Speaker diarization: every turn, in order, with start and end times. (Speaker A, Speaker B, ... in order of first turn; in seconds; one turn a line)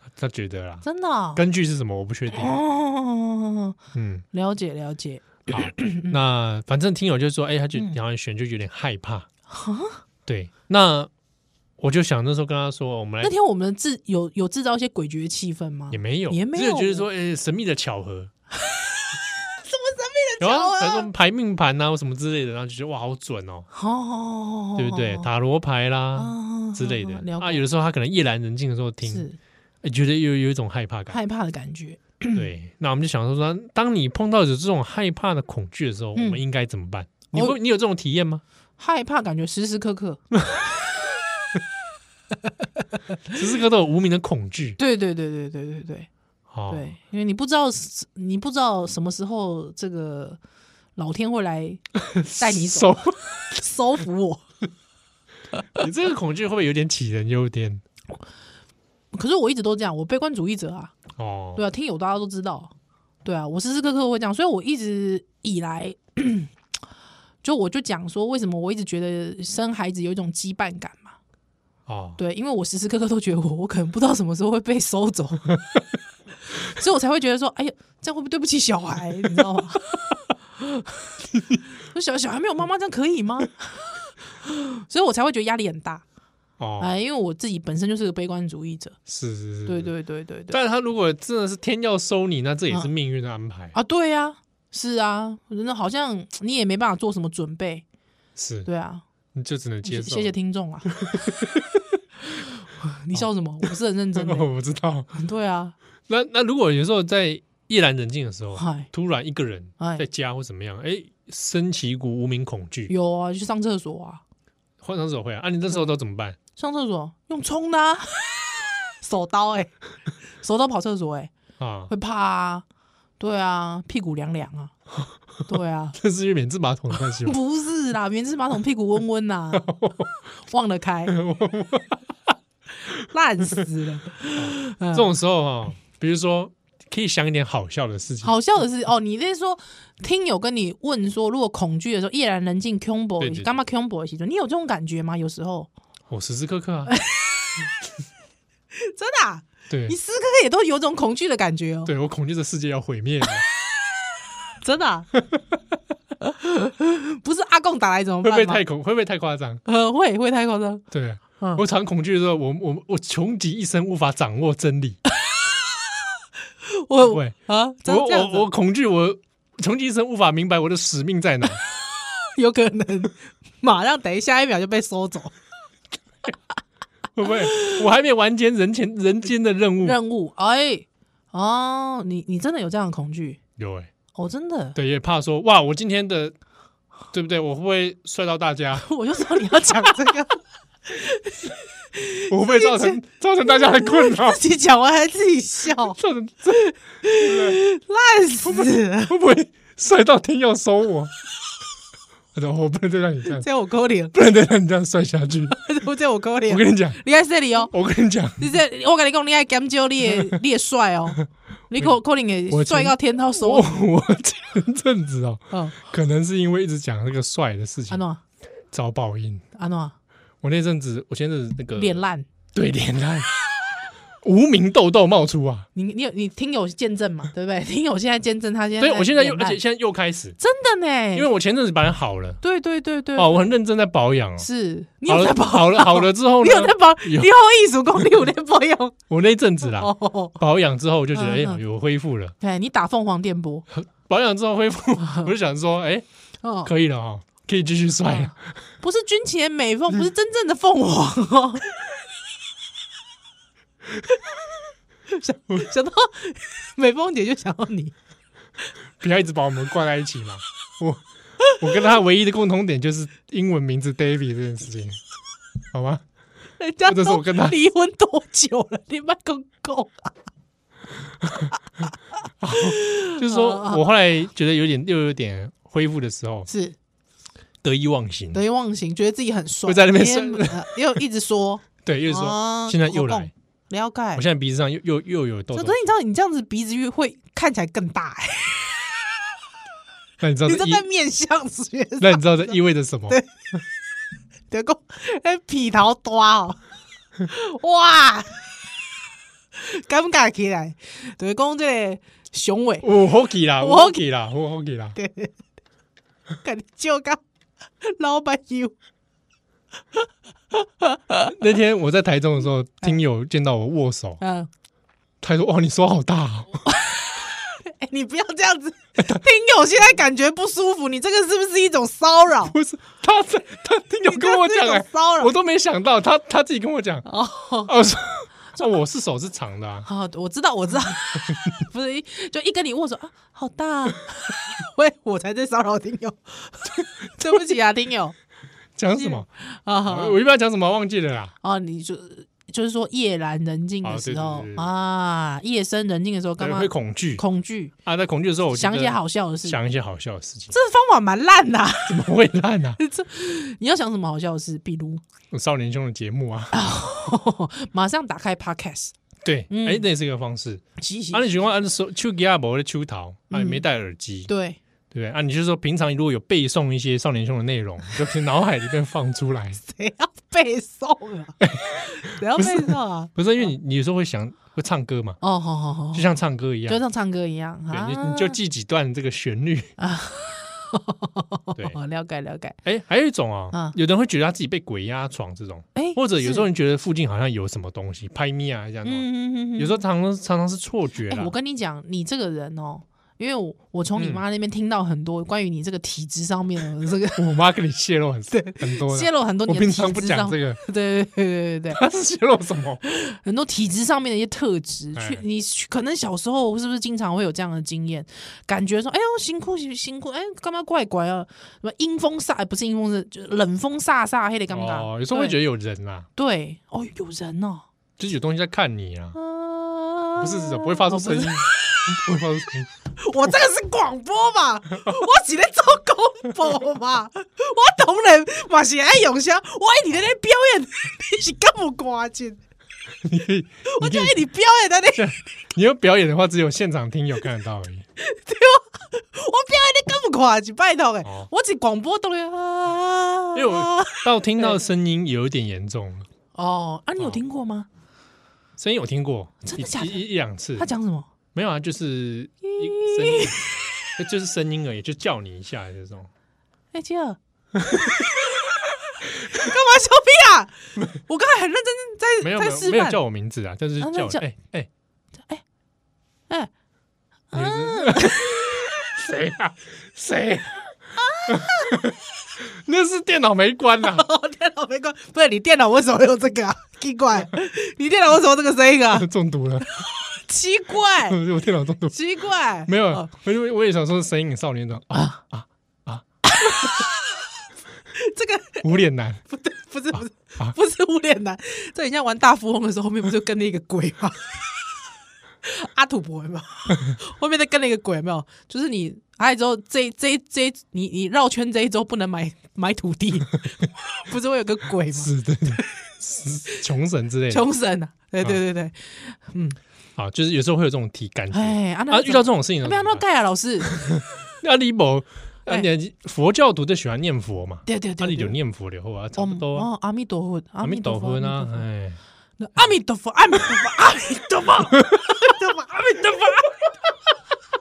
Speaker A: 0.2-2.5
Speaker B: 0.8-1.4
Speaker B: 2.3-3.8
Speaker A: 3.9-4.2
Speaker B: 4.3-6.2
Speaker A: 5.5-9.3
Speaker B: 9.5-10.0
Speaker A: 10.3-11.1
Speaker A: 11.8-13.3
Speaker B: 13.2-17.1
Speaker A: 15.9-18.3
Speaker B: 18.7-21.1
Speaker A: 20.4-23.7
Speaker B: 23.7-25.3
Speaker A: 24.8-29.3
Speaker B: 26.2-27.6
Speaker B: 29.0-29.4
Speaker A: 29.8-31.2
Speaker B: 31.1-32.4
Speaker A: 32.3-38.4
Speaker B: 36.1-36.4
Speaker B: 38.8-40.2
Speaker A: 43.3-44.8
Speaker B: 44.8-46.1
Speaker A: 46.5-46.9
Speaker B: 46.7-50.4
Speaker B: 51.0-51.8
Speaker A: 52.0-53.2
Speaker B: 52.4-54.4
Speaker A: 55.8-57.8
Speaker B: 59.1-61.0
Speaker A: 61.2-61.6
Speaker B: 61.5-62.7
Speaker B: 63.2-66.5
Speaker B: 67.4-71.2
Speaker A: 71.9-72.2
Speaker B: 72.2-75.5
Speaker B: 76.5-81.0
Speaker B: 81.9-86.0
Speaker A: 86.6-86.9
Speaker B: 86.8-89.0
Speaker A: 89.1-89.9
Speaker B: 89.7-90.6
Speaker A: 90.5-93.8
Speaker B: 93.7-97.8
Speaker A: 98.4-98.7
Speaker B: 98.7-99.0
Speaker A: 99.3-100.3
Speaker B: 99.8-101.2
Speaker A: 100.9-101.8
Speaker B: 102.3-104.5
Speaker A: 103.1-105.1
Speaker B: 105.1-105.8
Speaker A: 106.1-112.9
Speaker B: 108.6-108.9
Speaker B: 109.8-110.1
Speaker B: 112.9-114.2
Speaker A: 114.8-116.4
Speaker B: 116.6-119.7
Speaker B: 120.4-121.3
Speaker A: 121.6-121.9
Speaker B: 121.9-122.7
Speaker B: 123.2-124.8
Speaker B: 125.5-126.0
Speaker A: 126.0-127.4
Speaker B: 127.0-129.7
Speaker A: 129.6-130.1
Speaker B: 130.5-131.2
Speaker A: 131.1-132.1
Speaker B: 132.9-135.1
Speaker A: 134.4-138.3
Speaker B: 138.2-145.7
Speaker A: 143.2-143.6
Speaker A: 146.1-146.9
Speaker B: 146.9-147.7
Speaker B: 148.8-151.9
Speaker A: 149.7-150.0
Speaker A: 151.9-153.4
Speaker B: 154.6-155.1
Speaker B: 156.2-158.6
Speaker A: 158.2-159.6
Speaker B: 159.7-160.8
Speaker A: 160.9-165.0
Speaker B: 166.7-168.5
Speaker A: 167.0-171.6
Speaker B: 172.2-175.3
Speaker A: 177.2-180.0
Speaker B: 177.5-177.8
Speaker B: 179.8-183.4
Speaker A: 183.6-183.9
Speaker B: 184.2-184.8
Speaker A: 184.8-186.4
Speaker A: 187.1-188.9
Speaker B: 188.8-196.0
Speaker A: 192.3-194.4
Speaker A: 195.8-196.6
Speaker B: 196.5-199.1
Speaker A: 197.2-197.6
Speaker A: 198.4-201.1
Speaker A: 202.3-203.5
Speaker B: 203.3-204.2
Speaker A: 204.1-205.6
Speaker B: 205.5-207.7
Speaker A: 206.5-207.0
Speaker A: 207.6-208.5
Speaker B: 208.4-213.8
Speaker A: 210.1-210.4
Speaker A: 212.5-218.0
Speaker B: 215.5-215.8
Speaker B: 217.9-218.2
Speaker A: 218.7-219.4
Speaker B: 219.6-219.9
Speaker A: 220.4-222.0
Speaker B: 221.8-222.3
Speaker A: 222.5-223.3
Speaker A: 224.2-225.7
Speaker B: 225.8-229.6
Speaker A: 228.8-230.4
Speaker B: 230.4-231.3
Speaker A: 231.1-232.4
Speaker B: 232.4-233.5
Speaker A: 233.2-234.5
Speaker B: 234.4-238.9
Speaker A: 235.1-237.3
Speaker A: 239.1-242.3
Speaker B: 239.7-240.4
Speaker B: 241.1-241.6
Speaker B: 242.4-243.7
Speaker A: 243.7-246.1
Speaker B: 245.0-245.3
Speaker B: 246.4-246.7
Speaker A: 246.6-248.4
Speaker B: 248.1-251.7
Speaker B: 255.1-257.9
Speaker A: 259.0-261.0
Speaker A: 261.6-265.0
Speaker A: 265.7-266.0
Speaker B: 266.6-270.1
Speaker A: 266.9-267.6
Speaker A: 272.4-276.5
Speaker B: 272.6-273.8
Speaker B: 276.5-276.8
Speaker A: 277.6-278.4
Speaker B: 278.3-284.2
Speaker A: 279.7-280.7
Speaker A: 281.8-283.3
Speaker A: 284.1-285.8
Speaker B: 285.5-288.9
Speaker A: 290.2-290.9
Speaker B: 290.5-292.6
Speaker A: 292.0-293.2
Speaker B: 294.5-296.6
Speaker B: 297.3-298.4
Speaker B: 299.6-302.9
Speaker A: 302.8-305.0
Speaker B: 303.6-304.0
Speaker B: 304.9-305.3
Speaker B: 306.4-307.2
Speaker B: 307.8-308.7
Speaker B: 310.5-311.3
Speaker A: 311.3-314.2
Speaker B: 314.2-314.5
Speaker A: 315.2-316.7
Speaker B: 316.7-322.6
Speaker A: 322.4-327.1
Speaker B: 324.1-325.3
Speaker B: 327.1-327.7
Speaker A: 327.7-329.9
Speaker B: 329.9-338.1
Speaker A: 338.8-339.3
Speaker B: 338.9-340.2
Speaker A: 339.9-341.3
Speaker B: 341.4-347.7
Speaker A: 343.8-344.7
Speaker A: 346.4-347.2
Speaker A: 347.8-350.5
Speaker B: 348.5-349.6
Speaker B: 350.5-352.0
Speaker A: 351.9-352.8
Speaker B: 352.8-355.0
Speaker A: 355.3-356.6
Speaker B: 356.5-358.9
Speaker A: 359.2-364.3
Speaker B: 359.5-359.9
Speaker B: 360.8-361.3
Speaker B: 363.3-363.6
Speaker B: 364.3-364.6
Speaker A: 364.9-369.6
Speaker B: 369.6-373.1
Speaker A: 371.4-375.2
Speaker B: 375.2-376.1
Speaker A: 375.9-376.8
Speaker B: 376.7-378.4
Speaker A: 377.7-379.7
Speaker B: 379.8-382.6
Speaker A: 382.6-391.3
Speaker B: 385.8-386.5
Speaker B: 388.8-389.8
Speaker B: 391.1-397.2
Speaker A: 394.0-394.2
Speaker A: 397.1-400.6
Speaker B: 398.3-401.8
Speaker A: 401.7-402.8
Speaker B: 402.8-415.4
Speaker A: 404.9-405.2
Speaker A: 414.5-416.1
Speaker B: 416.2-417.7
Speaker A: 418.0-419.2
Speaker B: 419.1-422.0
Speaker A: 420.2-422.7
Speaker B: 422.9-432.4
Speaker A: 433.0-434.2
Speaker B: 433.6-435.1
Speaker A: 434.9-437.9
Speaker B: 438.0-444.6
Speaker A: 441.0-441.3
Speaker A: 443.4-446.1
Speaker B: 446.4-447.7
Speaker A: 448.6-450.7
Speaker B: 449.4-451.1
Speaker A: 451.4-456.1
Speaker B: 452.4-453.9
Speaker B: 456.7-457.2
Speaker A: 457.6-458.0
Speaker B: 457.7-458.6
Speaker B: 459.2-463.0
Speaker A: 462.2-464.7
Speaker B: 463.8-464.2
Speaker B: 467.3-468.8
Speaker A: 467.3-470.7
Speaker B: 471.0-471.9
Speaker A: 471.3-474.1
Speaker B: 473.8-479.1
Speaker A: 478.9-479.7
Speaker B: 479.6-481.2
Speaker A: 481.0-482.0
Speaker B: 481.9-483.1
Speaker A: 482.7-486.1
Speaker B: 486.2-487.2
Speaker B: 487.9-494.4
Speaker A: 488.6-489.2
Speaker A: 489.9-490.6
Speaker B: 495.4-505.8
Speaker A: 504.9-507.5
Speaker B: 507.3-509.6
Speaker A: 510.0-513.0
Speaker B: 511.3-514.0
Speaker A: 513.6-519.7
Speaker B: 517.7-518.4
Speaker B: 519.2-521.7
Speaker A: 520.6-522.0
Speaker B: 522.4-526.9
Speaker A: 524.8-525.1